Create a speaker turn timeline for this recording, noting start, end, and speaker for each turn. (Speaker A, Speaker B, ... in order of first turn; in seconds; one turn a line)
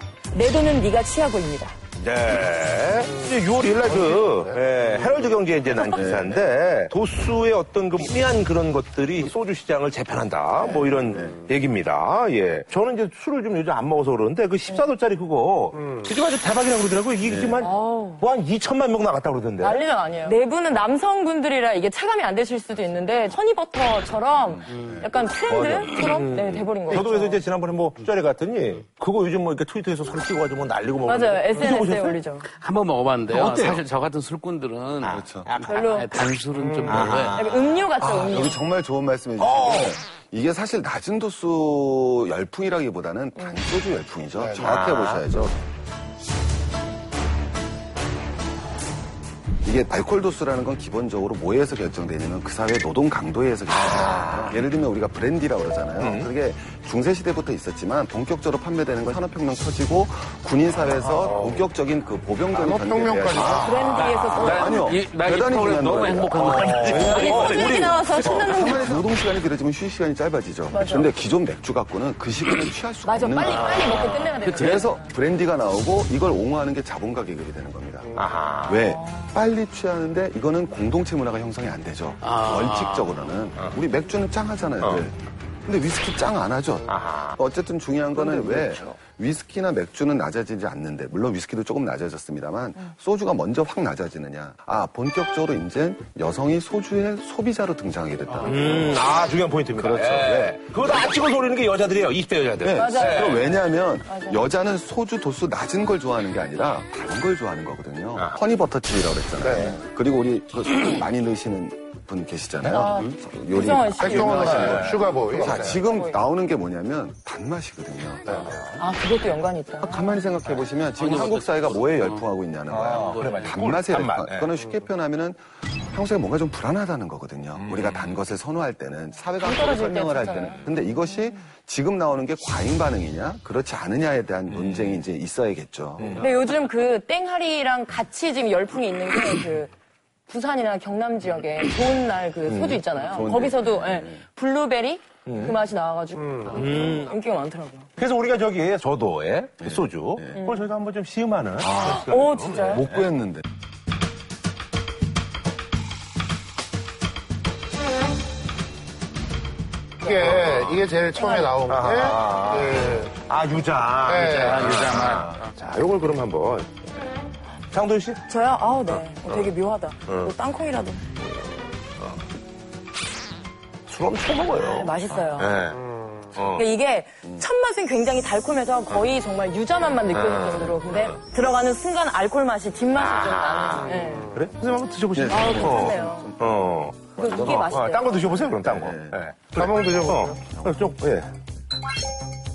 Speaker A: 0.3-1.8
Speaker B: 2.0-19.8
Speaker C: 3.0-4.8
Speaker D: 5.8-6.5
Speaker D: 10.6-11.4
Speaker C: 15.7-16.1
Speaker D: 17.2-17.6
Speaker A: 17.6-18.2
Speaker A: 19.6-27.4
Speaker D: 24.5-25.9
Speaker E: 24.7-25.0
Speaker B: 25.5-32.2
Speaker A: 31.1-32.5
Speaker E: 32.5-37.5
Speaker B: 33.3-33.8
Speaker B: 35.0-35.8
Speaker D: 35.0-35.5
Speaker A: 35.6-36.2
Speaker C: 36.6-37.2
Speaker B: 36.9-38.4
Speaker A: 37.3-38.6
Speaker D: 38.1-45.6
Speaker B: 39.4-40.0
Speaker A: 43.4-43.6
Speaker C: 44.3-44.8
Speaker B: 44.6-45.5
Speaker D: 49.6-78.1
Speaker B: 53.7-54.6
Speaker B: 56.0-56.3
Speaker B: 61.0-61.7
Speaker C: 62.5-64.0
Speaker A: 63.6-64.9
Speaker E: 63.9-67.5
Speaker B: 66.4-68.5
Speaker C: 66.9-67.4
Speaker A: 66.9-69.1
Speaker A: 70.7-71.2
Speaker A: 73.0-75.1
Speaker E: 73.4-74.9
Speaker C: 78.0-78.3
Speaker B: 78.1-78.9
Speaker D: 78.7-98.9
Speaker A: 78.9-79.3
Speaker E: 82.2-83.3
Speaker B: 84.8-85.0
Speaker B: 86.9-87.4
Speaker B: 88.2-89.0
Speaker B: 98.4-103.4
Speaker D: 99.8-101.2
Speaker D: 102.6-118.6
Speaker A: 102.7-104.4
Speaker B: 109.4-109.8
Speaker A: 112.7-116.2
Speaker E: 112.8-113.1
Speaker C: 114.0-115.8
Speaker B: 114.2-115.7
Speaker C: 118.2-118.5
Speaker B: 118.3-118.8
Speaker A: 118.8-120.2
Speaker D: 119.8-136.2
Speaker E: 120.5-122.3
Speaker B: 122.7-124.5
Speaker E: 122.9-123.6
Speaker B: 127.5-128.2
Speaker A: 129.4-130.6
Speaker B: 134.5-135.0
Speaker A: 136.2-139.7
Speaker A: 140.3-147.9
Speaker B: 142.4-142.8
Speaker D: 143.0-144.2
Speaker B: 145.2-145.6
Speaker C: 146.2-146.6
Speaker B: 146.5-147.1
Speaker B: 148.0-153.0
Speaker D: 149.6-150.4
Speaker A: 150.4-150.7
Speaker D: 151.6-152.0
Speaker A: 151.8-152.9
Speaker D: 152.6-153.4
Speaker C: 160.0-163.2
Speaker A: 160.1-160.4
Speaker B: 160.1-160.8
Speaker A: 161.1-161.5
Speaker B: 161.7-166.9
Speaker C: 164.0-164.6
Speaker E: 164.1-165.5
Speaker B: 167.7-168.2
Speaker A: 168.3-171.0
Speaker B: 168.9-169.5
Speaker B: 170.1-170.3
Speaker B: 171.2-172.2
Speaker B: 173.9-175.8
Speaker A: 174.6-175.5
Speaker C: 175.7-176.3
Speaker B: 176.3-176.6
Speaker A: 176.5-184.3
Speaker B: 180.1-181.2
Speaker B: 182.9-191.3
Speaker C: 183.8-184.5
Speaker D: 185.1-187.8
Speaker A: 185.3-186.3
Speaker A: 187.2-188.5
Speaker D: 188.6-189.2
Speaker C: 189.5-190.4
Speaker D: 190.5-190.9